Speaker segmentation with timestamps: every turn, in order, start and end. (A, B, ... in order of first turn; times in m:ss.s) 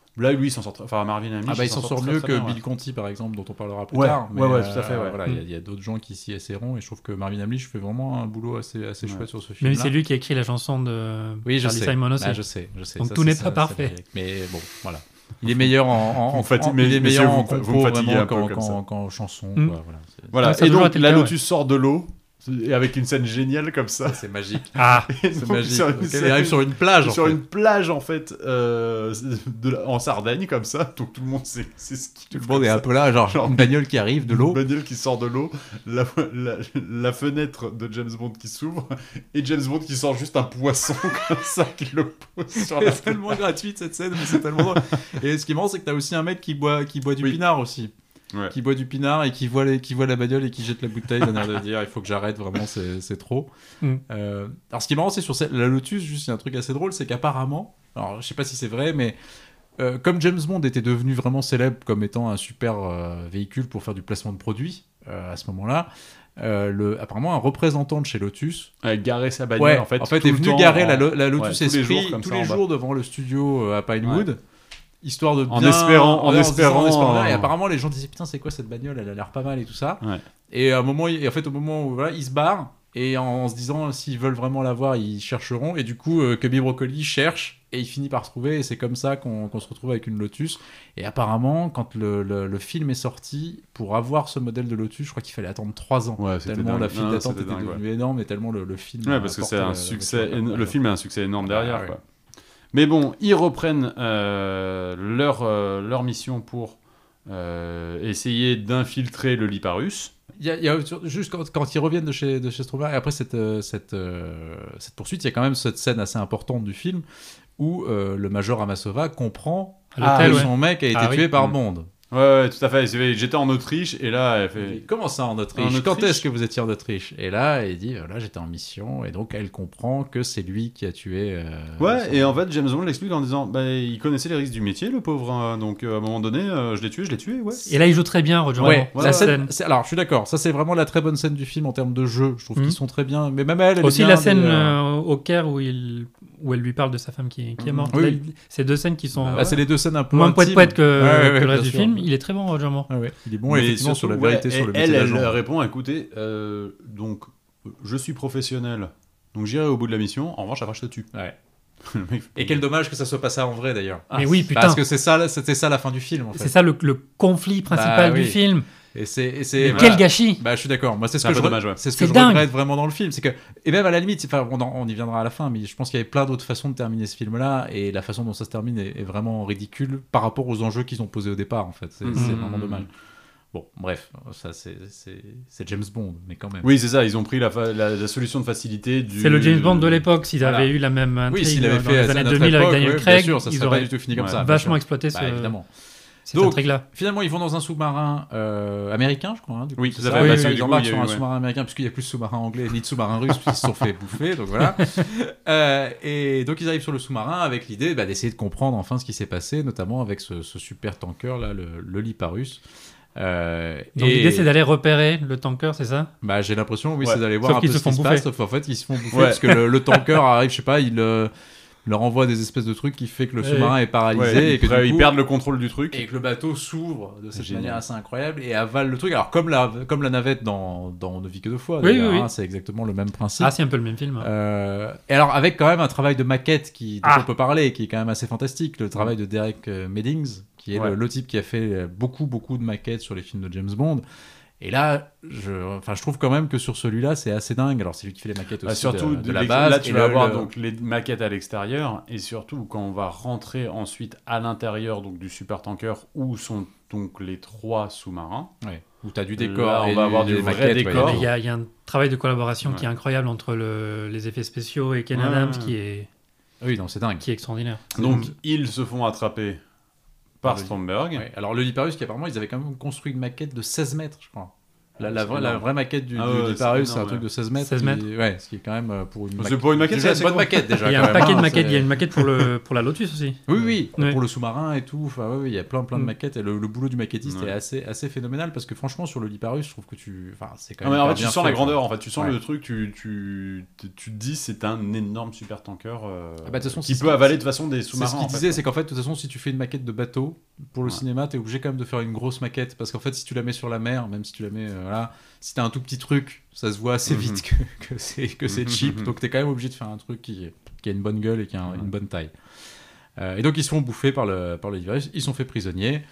0:00.2-0:02.6 A
0:01.4-0:09.9 B
0:03.9-0:05.2 A
0:09.6-0:12.4 C
0:11.4-0:20.3 B
0:13.0-0:13.9 C
0:15.6-0:18.8 A
0:20.3-0:24.2 A
0:20.4-0:21.3 C
0:24.0-0:27.4 B
0:24.8-0:25.1 C
0:24.9-0:43.4 A
0:32.3-0:34.6 B
0:42.6-0:47.9 B
0:44.2-0:44.9 A
0:48.5-0:53.5 B
0:51.2-0:51.5 A
0:54.1-0:59.2 B
0:59.8-1:08.7 B
1:08.8-1:12.6 A
1:09.6-1:14.4 B
1:14.0-1:14.3 A
1:15.0-1:40.8 B
1:15.5-1:17.5 A
1:36.2-1:37.8 A
1:39.0-1:42.0 A
1:41.4-1:41.9 B
1:42.7-1:50.1 A
1:50.4-1:57.0 B
1:57.6-2:01.9 B
1:59.9-2:01.2 C
2:00.0-2:00.5 A
2:02.1-2:04.8 A
2:04.6-2:12.4 B
2:05.6-2:06.2 A
2:11.8-2:17.7 A
2:17.6-2:19.5 C
2:18.6-2:19.3 A
2:18.6-2:24.8 B
2:23.8-2:32.9 C
2:27.6-2:27.9 A
2:27.9-2:28.2 B
2:29.2-2:29.6 A
2:29.3-2:32.1 B
2:32.9-2:35.4 B
2:33.5-2:41.1 A
2:41.8-2:42.6 A
2:42.3-2:46.5 B
2:44.1-2:44.4 A
2:44.1-2:44.8 C
2:46.4-2:48.6 C
2:47.7-2:48.4 B
2:48.9-3:02.9 B
2:49.6-2:50.4 C
2:49.7-2:50.0 A
2:51.2-2:51.8 A
2:52.0-2:52.5 C
3:02.0-3:02.9 A
3:02.1-3:02.4 C
3:03.5-3:06.7 B
3:06.6-3:10.0 A
3:09.2-3:15.6 C
3:10.4-3:10.7 B
3:11.3-3:15.6 B
3:14.2-3:14.4 A
3:16.3-3:16.8 C
3:16.3-3:32.6 B
3:19.8-3:21.2 A
3:20.2-3:20.5 C
3:33.2-3:34.5 B
3:34.0-3:36.1 C
3:36.2-3:41.3 B
3:37.4-3:38.2 C
3:39.1-3:39.6 A
3:41.8-3:45.1 B
3:43.4-3:43.7 C
3:44.1-3:46.0 A
3:45.9-3:53.5 B
3:47.3-3:47.8 A
3:51.8-3:52.3 C
3:53.4-3:54.3 C
3:54.2-4:04.0 B
4:04.6-4:10.5 B
4:08.6-4:18.5 A
4:18.6-4:21.3 B
4:19.4-4:21.3 A
4:20.8-4:26.1 C
4:25.1-4:25.7 A
4:26.6-4:27.2 B
4:27.2-4:28.0 C
4:27.9-4:29.6 A
4:28.0-4:28.2 B
4:30.4-4:31.2 A
4:30.4-4:42.0 B
4:35.0-4:37.2 A
4:37.6-4:38.0 C
4:39.4-4:41.3 A
4:40.8-4:43.4 C
4:43.5-4:52.3 B
4:47.2-4:47.5 A
4:50.8-4:58.6 A
4:56.4-4:57.4 B
4:57.9-5:12.3 B
5:07.0-5:07.4 A
5:08.5-5:09.1 A
5:13.2-5:16.0 B